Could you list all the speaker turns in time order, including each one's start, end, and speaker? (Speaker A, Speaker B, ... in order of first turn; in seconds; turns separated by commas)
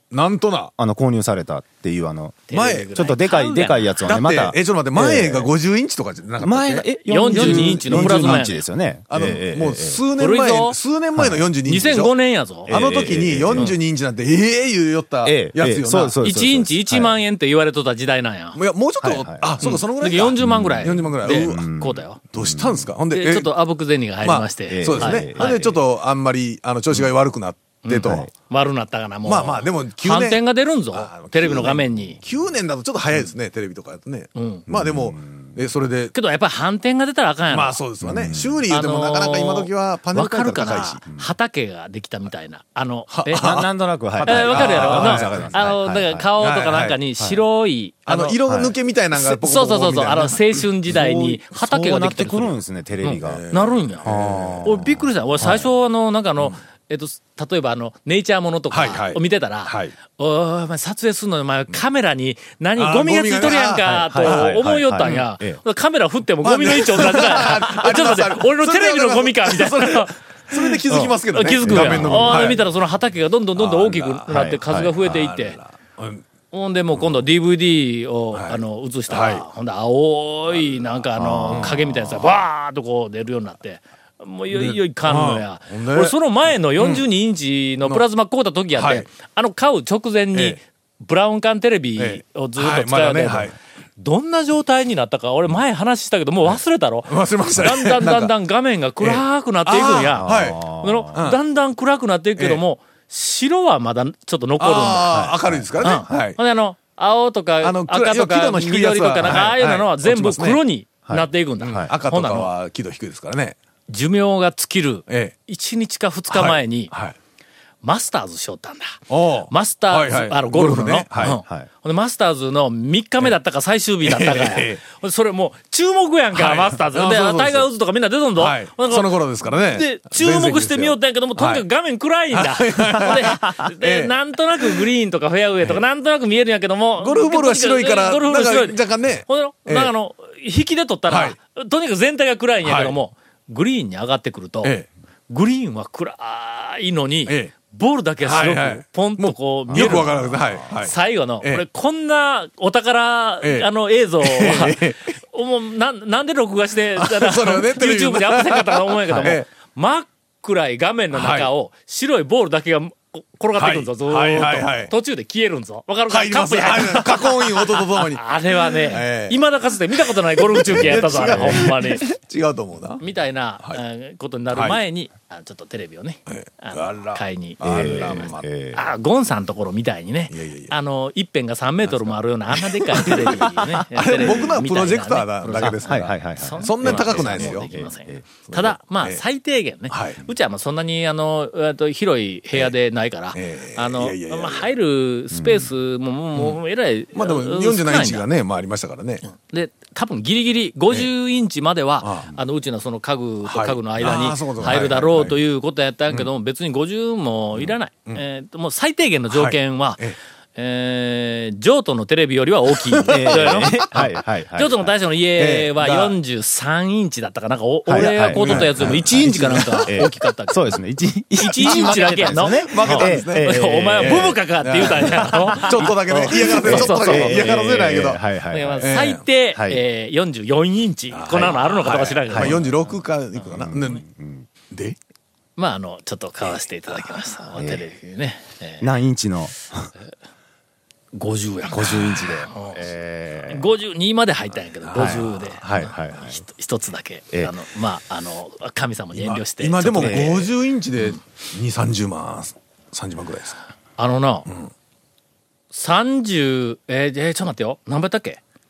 Speaker A: 0.1-0.7, Speaker B: 0.8-5.5, Speaker C: 2.5-4.0, Speaker A: 2.5-2.9, Speaker A: 4.0-8.5, Speaker B: 6.4-10.0, Speaker C: 7.1-8.7, Speaker A: 9.1-12.1, Speaker C: 10.2-10.8, Speaker B: 11.2-11.5, Speaker C: 11.6-12.8, Speaker B: 12.7-13.7, Speaker A: 12.7-16.2, Speaker B: 15.2-17.1, Speaker C: 16.2-18.6, Speaker A: 18.6-21.6, Speaker B: 19.0-19.6, Speaker C: 19.6-22.2, Speaker B: 20.4-22.9, Speaker A: 22.3-23.5, Speaker C: 23.1-25.8, Speaker A: 24.2-28.3, Speaker B: 24.7-25.6, Speaker C: 27.9-32.2, Speaker B: 28.0-28.3, Speaker A: 29.2-36.1, Speaker C: 34.4-34.7, Speaker B: 34.7-35.6, Speaker C: 36.1-37.8, Speaker A: 37.5-41.0, Speaker B: 38.0-38.7, Speaker C: 38.7-43.5, Speaker A: 43.1-45.6, Speaker B: 43.3-46.3, Speaker C: 44.2-48.4, Speaker A: 46.4-47.0, Speaker A: 48.1-50.9, Speaker B: 48.5-48.8, Speaker C: 49.1-54.1, Speaker B: 50.9-53.4, Speaker A: 53.1-54.9, Speaker B: 54.0-55.7, Speaker C: 54.6-75.6, Speaker A: 58.7-60.0, Speaker A: 62.8-64.5, Speaker B: 64.0-65.6, Speaker A: 66.4-72.7, Speaker B: 71.6-72.7, Speaker A: 73.6-76.2, Speaker B: 74.3-74.9, Speaker C: 76.5-112.5, Speaker A: 76.9-77.2, Speaker A: 78.3-79.5, Speaker A: 80.6-80.8, Speaker B: 81.2-81.8, Speaker A: 81.5-82.4, Speaker A: 84.5-86.2, Speaker A: 86.8-87.0, Speaker A: 88.7-89.1, Speaker A: 92.0-93.5, Speaker A: 96.5-98.3, Speaker A: 99.0-101.4, Speaker B: 100.2-101.2, Speaker A: 102.4-102.6, Speaker A: 104.6-106.4, Speaker B: 105.1-106.1, Speaker A: 107.6-110.6, Speaker B: 111.1-111.9, Speaker A: 111.6-113.6, Speaker C: 113.9-116.9, Speaker A: 115.1-115.3, Speaker A: 116.3-117.2, Speaker C: 117.8-144.8, Speaker A: 119.1-121.4, Speaker B: 121.2-121.7, Speaker A: 124.0-124.8, Speaker A: 126.3-127.7, Speaker A: 128.4-131.7, Speaker A: 132.3-134.9, Speaker B: 133.1-133.6, Speaker A: 137.0-139.9, Speaker A: 141.1-141.4, Speaker A: 142.6-143.0, Speaker C: 145.3-172.0, Speaker A: 147.3-147.5, Speaker A: 148.2-151.6, Speaker B: 149.7-150.6, Speaker A: 153.4-153.7, Speaker A: 154.2-155.0, Speaker A: 157.0-159.5, Speaker B: 159.1-159.3, Speaker A: 161.1-161.5, Speaker A: 163.6-164.9, Speaker A: 166.1-169.4, Speaker A: 170.0-173.0, Speaker B: 170.7-172.0, Speaker C: 173.0-198.3, Speaker A: 174.5-174.8, Speaker A: 176.3-178.5, Speaker B: 177.6-178.8, Speaker A: 180.3-180.7, Speaker A: 182.6-187.7, Speaker B: 184.2-184.5, Speaker B: 185.6-188.3, Speaker A: 188.5-189.2, Speaker A: 189.9-190.3, Speaker A: 193.3-194.7, Speaker B: 195.3-195.7, Speaker A: 197.1-199.2, Speaker C: 199.2-220.8, Speaker A: 202.0-202.3, Speaker A: 203.4-205.4, Speaker A: 207.6-208.2, Speaker A: 209.3-210.2, Speaker A: 213.0-214.0, Speaker B: 213.1-214.9, Speaker A: 215.4-216.2, Speaker B: 217.9-229.0, Speaker A: 217.9-220.0, Speaker C: 221.4-227.6, Speaker A: 221.5-228.2, Speaker C: 228.5-232.9, Speaker A: 228.8-229.2, Speaker B: 229.5-229.8, Speaker A: 231.1-234.0, Speaker B: 232.3-232.6, Speaker B: 233.5-234.5, Speaker A: 234.7-235.0, Speaker C: 235.6-238.9, Speaker B: 237.6-237.9, Speaker B: 238.8-239.9, Speaker C: 241.1-242.8, Speaker B: 241.7-243.7, Speaker C: 243.4-251.2, Speaker A: 244.8-245.9, Speaker B: 244.9-246.4, Speaker A: 249.1-253.6, Speaker B: 250.0-250.4, Speaker C: 254.0-254.5, Speaker C: 255.7-258.4